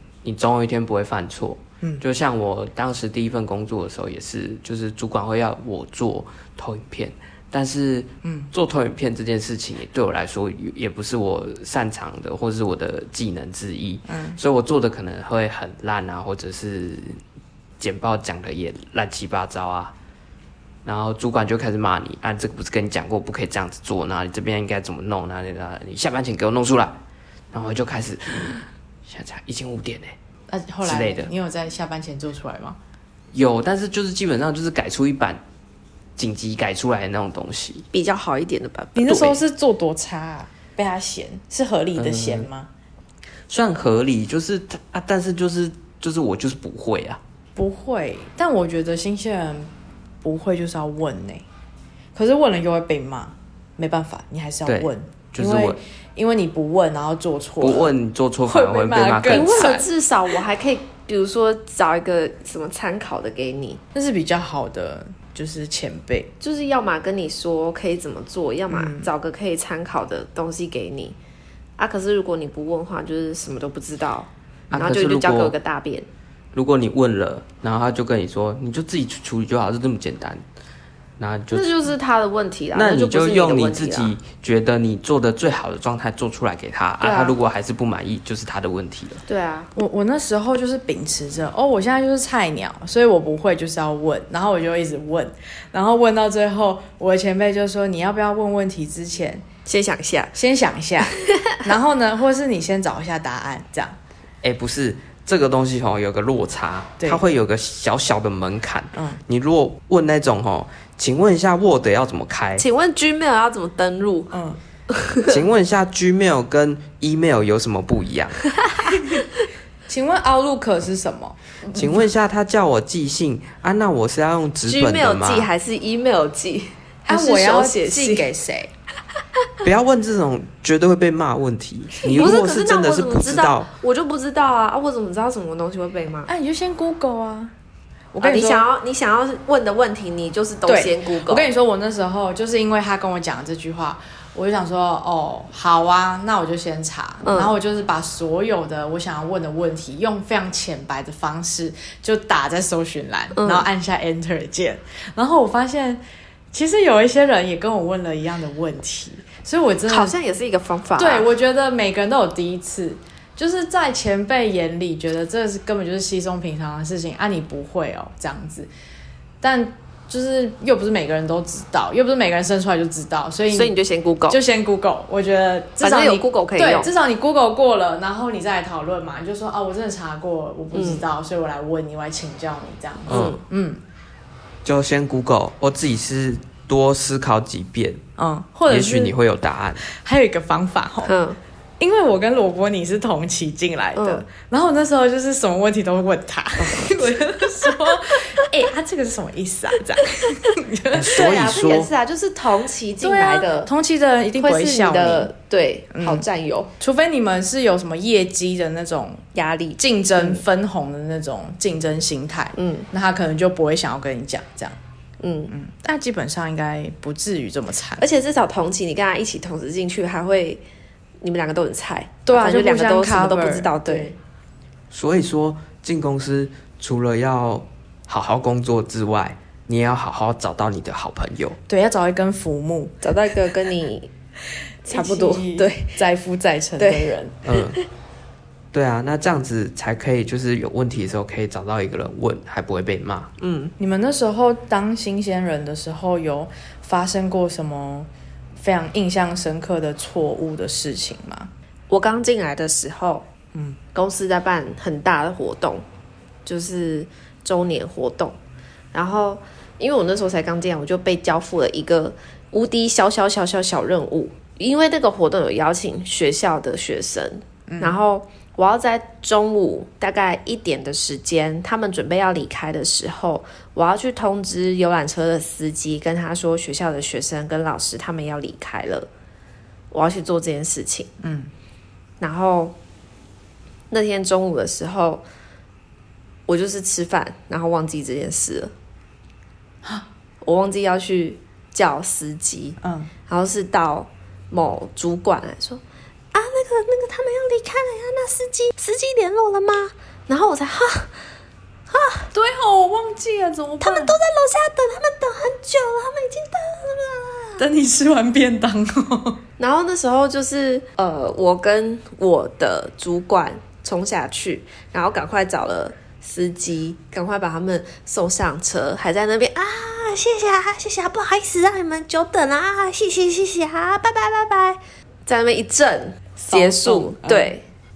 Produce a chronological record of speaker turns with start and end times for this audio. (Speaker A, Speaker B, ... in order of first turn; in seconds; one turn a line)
Speaker A: 0.2-17.2
Speaker B: 8.2-8.5
Speaker B: 14.1-14.4
Speaker A: 17.8-19.9
Speaker A: 20.8-27.0
Speaker A: 27.5-30.1
Speaker B: 30.5-32.8
Speaker A: 30.8-31.3
Speaker A: 33.3-35.4
Speaker A: 36.2-37.9
Speaker C: 37.9-39.4
Speaker B: 39.0-42.7
Speaker A: 42.0-42.5
Speaker A: 43.5-47.2
Speaker B: 47.5-49.7
Speaker B: 50.2-51.5
Speaker B: 52.1-57.9
Speaker A: 54.6-55.8
Speaker A: 57.6-59.8
Speaker B: 58.4-59.9
Speaker C: 59.3-63.8
Speaker B: 63.9-66.3
Speaker C: 66.4-71.2
Speaker B: 68.7-69.1
Speaker C: 71.8-76.1
Speaker A: 74.7-75.5
Speaker A: 76.5-80.4
Speaker A: 81.2-81.7
Speaker C: 81.5-84.1
Speaker A: 82.7-89.2
Speaker C: 87.0-87.3
Speaker C: 89.3-89.7
Speaker B: 89.7-99.5
Speaker C: 99.7-100.3
Speaker B: 100.3-104.0
Speaker C: 101.0-101.6
Speaker A: 104.4-112.6
Speaker B: 108.9-109.2
Speaker C: 112.6-114.4
Speaker B: 114.3-114.6
Speaker C: 114.9-115.3
Speaker A: 115.2-118.4
Speaker C: 118.6-119.2
Speaker B: 119.0-119.2
Speaker B: 119.9-122.1
Speaker A: 121.7-125.5
Speaker C: 124.6-128.3
Speaker B: 127.1-128.7
Speaker A: 129.6-133.7
Speaker C: 132.0-136.3
Speaker B: 136.3-137.5
Speaker B: 138.1-138.7
Speaker C: 138.2-141.5
Speaker B: 140.7-160.2
Speaker C: 147.2-147.5
Speaker C: 153.3-153.7
Speaker C: 159.9-161.3
Speaker B: 161.0-168.7
Speaker B: 169.4-173.7
Speaker C: 173.5-174.4
Speaker B: 174.3-183.8
Speaker C: 175.8-176.9
Speaker C: 180.7-181.0
Speaker A: 183.1-183.4
Speaker C: 183.1-183.4
Speaker A: 184.6-188.0
Speaker B: 188.2-189.1
Speaker A: 188.7-189.8
Speaker B: 189.8-191.1
Speaker C: 191.0-191.4
Speaker B: 191.8-201.5
Speaker C: 193.9-194.2
Speaker C: 196.6-197.1
Speaker C: 197.9-198.4
Speaker A: 200.9-201.9
Speaker C: 201.1-203.7
Speaker B: 203.0-205.3
Speaker C: 204.4-206.7
Speaker B: 205.9-206.2
Speaker B: 206.8-209.2
Speaker C: 209.3-210.4
Speaker B: 209.8-214.8
Speaker C: 212.6-212.9
Speaker C: 215.2-215.5
Speaker B: 215.5-218.1
Speaker C: 218.0-220.6
Speaker C: 221.2-224.1
Speaker B: 222.2-224.2
Speaker A: 224.9-231.6
Speaker B: 231.7-233.0
Speaker C: 233.0-234.1
Speaker C: 234.8-236.0
Speaker B: 234.8-237.3
Speaker C: 236.8-237.1
Speaker A: 237.4-237.8
Speaker A: 238.7-243.3
Speaker C: 243.4-243.7
Speaker B: 243.8-251.5
Speaker C: 251.9-253.3
Speaker B: 253.5-253.8
Speaker C: 253.9-255.8
Speaker C: 256.4-258.4
Speaker C: 258.9-279.1
Speaker B: 267.7-268.0
Speaker C: 279.9-281.1
Speaker B: 281.2-281.5
Speaker C: 282.2-282.7
Speaker C: 283.9-285.2
Speaker C: 286.5-288.7
Speaker C: 290.4-295.8
Speaker B: 292.8-293.1
Speaker C: 296.3-301.1
Speaker C: 301.9-302.3
Speaker B: 302.3-304.1
Speaker C: 303.8-307.6
Speaker B: 307.6-309.4
Speaker C: 309.6-327.6
Speaker B: 326.4-327.5